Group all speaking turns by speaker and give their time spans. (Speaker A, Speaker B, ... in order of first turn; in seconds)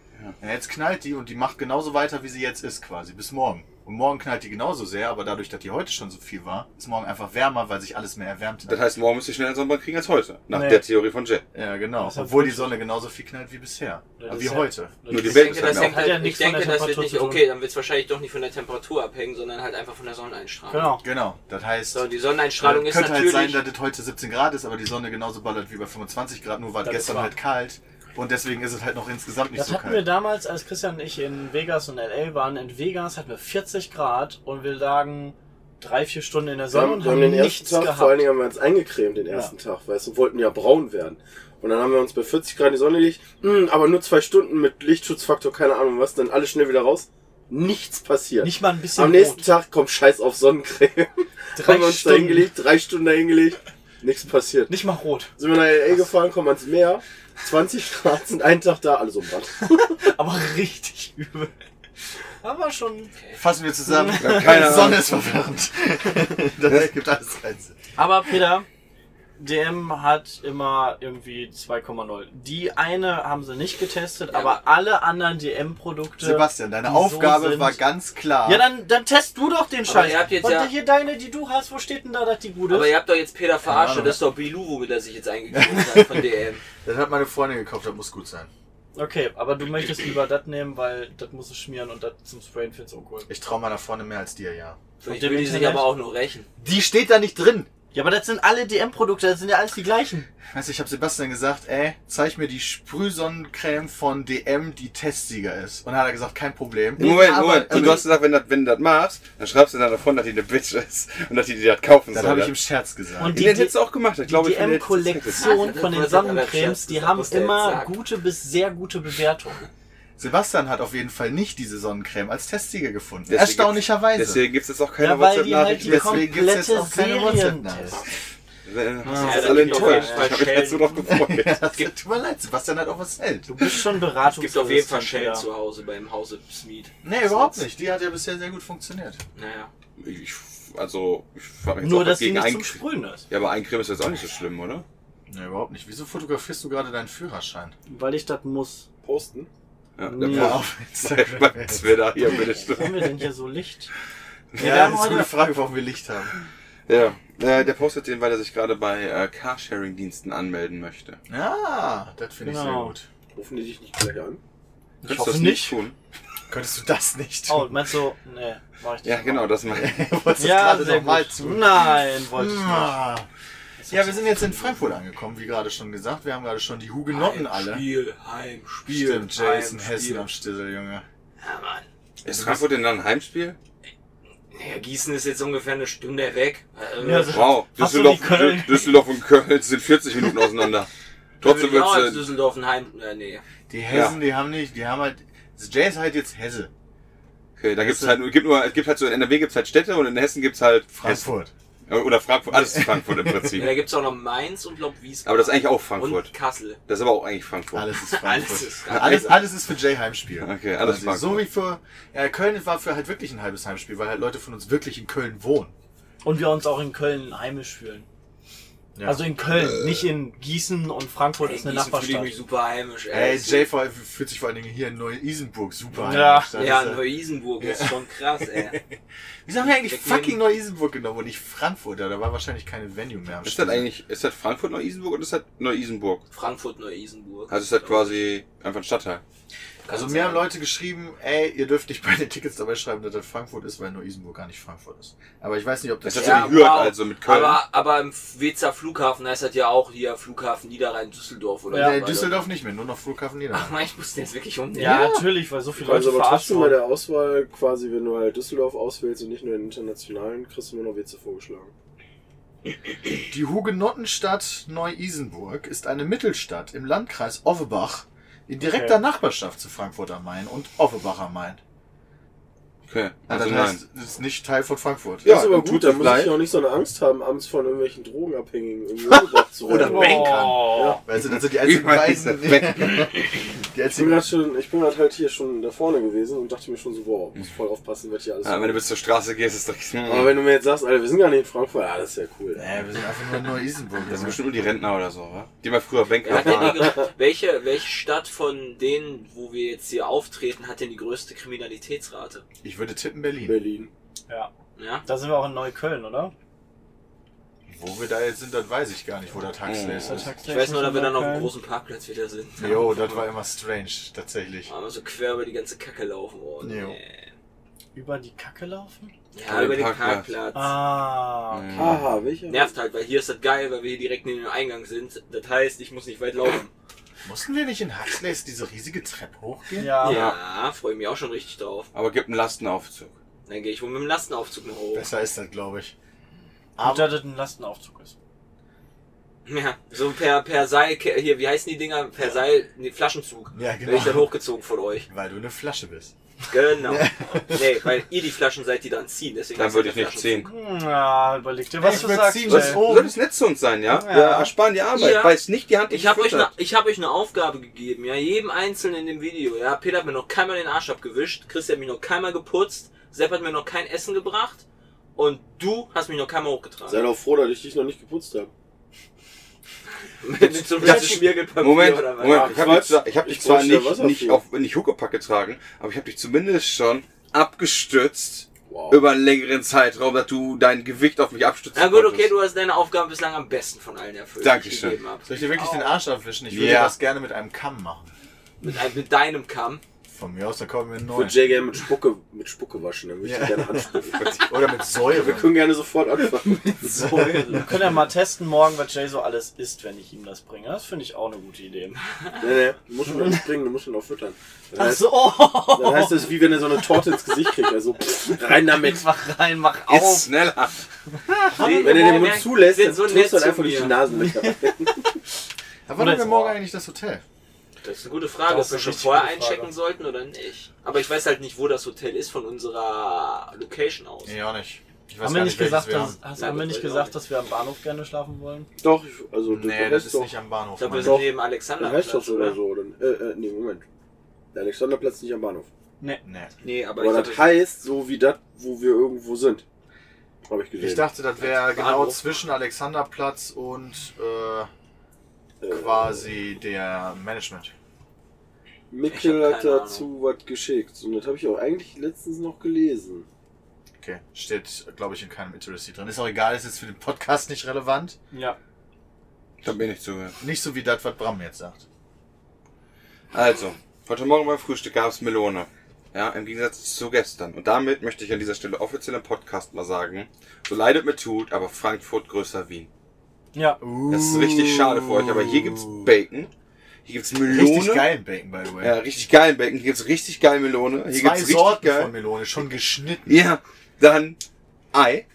Speaker A: 0.4-8.9, 11.5-15.0, 21.0-22.1, 22.6-30.1, 63.4-67.8, 76.2-78.7, 83.7-84.2, 85.5-86.3, 86.8-88.5, 93.3-94.8, 96.6-97.7, 100.5-108.1, 112.1-113.4, 120.2-124.4, 125.8-128.0, 131.1-133.5, 137.0-139.2, 145.3-147.7, 150.2-152.0, 154.6-156.3, 161.3-163.1, 166.5-167.8, 169.7-173.3, 173.9-177.8, 178.9-181.1, 182.2-182.7, 193.7-196.7, 197.8-198.3, 200.9-201.5, 202.7-203.6, 207.7-215.7, 218.9-219.3, 223.1-227.0, 227.6-228.0, 229.5-233.9, 239.9-246.7, 251.7-253.7, 254.8-255.1, 263.3-271.6, 273.3-275.3, 279.7-284.3, 292.6-294.4, 302.6-303.6, 307.7-310.3, 312.6-314.7, 316.6-317.0, 327.2-330.0, 334.9-335.9, 336.8-337.2, 343.5-344.3, 345.1-346.1, 346.8-347.7, 351.8-353.2, 385.3-388.1, 390.1-391.5, 393.2-395.6, 397.0-397.6, 415.9-417.2, 424.2-426.2, 429.5-431.2, 436.2-436.5, 440.8-444.7, 445.7-447.7, 454.0-458.2, 460.4-461.8, 473.8-476.1, 477.4-479.2, 481.1-483.4
Speaker B: 8.7-11.4, 15.1-16.1, 64.2-65.1, 107.0-112.5, 113.3-115.6, 123.3-126.3, 128.7-131.9, 140.0-144.8, 150.0-153.2, 156.9-161.2, 165.0-165.9, 169.0-170.1, 182.2-183.6, 187.3-190.9, 191.4-192.2, 193.9-194.2, 197.6-201.3, 201.9-203.7, 205.2-206.3, 206.9-207.9, 208.9-209.3, 210.4-211.4, 233.4-236.2, 237.5-239.2, 246.0-247.6, 272.9-273.8, 275.2-276.4, 281.4-283.4, 288.4-290.4, 294.1-297.0, 309.6-310.3, 319.5-320.3, 321.5-322.1, 330.1-330.4, 331.9-333.1, 349.6-350.5, 352.5-356.5, 370.8-382.3, 384.4-385.0, 386.5-386.9, 394.1-394.5, 409.9-410.8, 459.6-460.4, 463.3-472.9, 474.1-476.5, 477.1-478.1, 478.8-482.1, 483.3-484.4, 484.9-485.2
Speaker C: 10.5-10.8, 12.0-12.8, 14.2-17.4, 20.7-21.1, 26.8-27.3, 29.6-38.2, 48.4-49.5, 51.5-52.5, 54.7-55.4, 59.6-61.5, 62.4-63.1, 63.9-65.0, 68.0-68.7, 69.4-77.8, 78.5-82.9, 89.0-93.3, 95.1-95.9, 97.9-100.3, 113.2-119.7, 125.0-128.0, 129.0-130.4, 133.5-135.4, 141.8-143.3, 147.9-148.9, 150.0-150.6, 152.4-153.9, 154.6-155.3, 162.4-162.9, 165.0-165.8, 167.5-169.6, 170.4-173.0, 173.8-174.8, 187.0-189.0, 216.2-218.1, 219.0-222.4, 226.0-226.7, 251.7-252.0, 254.7-256.8, 268.6-269.0, 279.8-281.0, 305.1-306.3, 310.1-311.5, 317.9-319.1, 320.5-321.9, 329.8-330.3, 336.8-338.1, 350.4-352.9, 353.9-354.5, 385.6-386.0, 397.3-402.0, 404.8-407.3, 408.6-410.3, 411.3-412.4, 414.1-414.7, 416.0-416.6, 418.5-419.7, 425.2-428.7, 458.3-458.6, 473.5-473.8
Speaker D: 15.2-21.0, 21.9-23.6, 63.1-63.4, 74.3-74.6, 79.9-80.7, 82.7-86.6, 95.0-96.5, 115.4-117.9, 129.1-131.0, 134.2-137.6, 139.4-139.7, 177.1-180.3, 181.4-181.9, 184.5-187.5, 191.4-193.4, 203.6-206.8, 208.0-209.4, 221.4-223.7, 226.6-228.8, 229.6-230.4, 236.3-238.2, 239.9-240.4, 246.1-252.5, 253.5-255.2, 296.2-302.4, 304.8-305.1, 310.4-313.2, 314.7-317.3, 319.3-320.7, 322.5-326.7, 330.0-331.9, 333.5-335.1, 339.5-345.1, 346.5-350.5, 354.9-364.6, 365.2-367.1, 370.2-372.6, 381.7-385.3, 388.6-389.8, 411.5-414.0, 417.8-424.4, 426.4-427.1, 430.8-432.6, 436.6-437.6, 441.4-442.2, 449.1-450.1
Speaker E: 36.7-54.7, 55.4-60.0, 149.0-149.5, 163.3-164.4, 255.8-261.7, 275.2-281.0, 283.9-288.8, 290.1-292.8, 296.3-297.0, 303.4-303.9, 321.8-322.7, 366.9-368.5, 372.2-374.4, 378.7-379.1, 391.1-394.3, 395.0-397.7, 402.4-409.1, 411.7-415.1, 428.8-430.3, 431.0-433.9, 434.5-435.7, 437.0-439.6, 440.5-441.1, 445.6-446.3, 448.9-453.3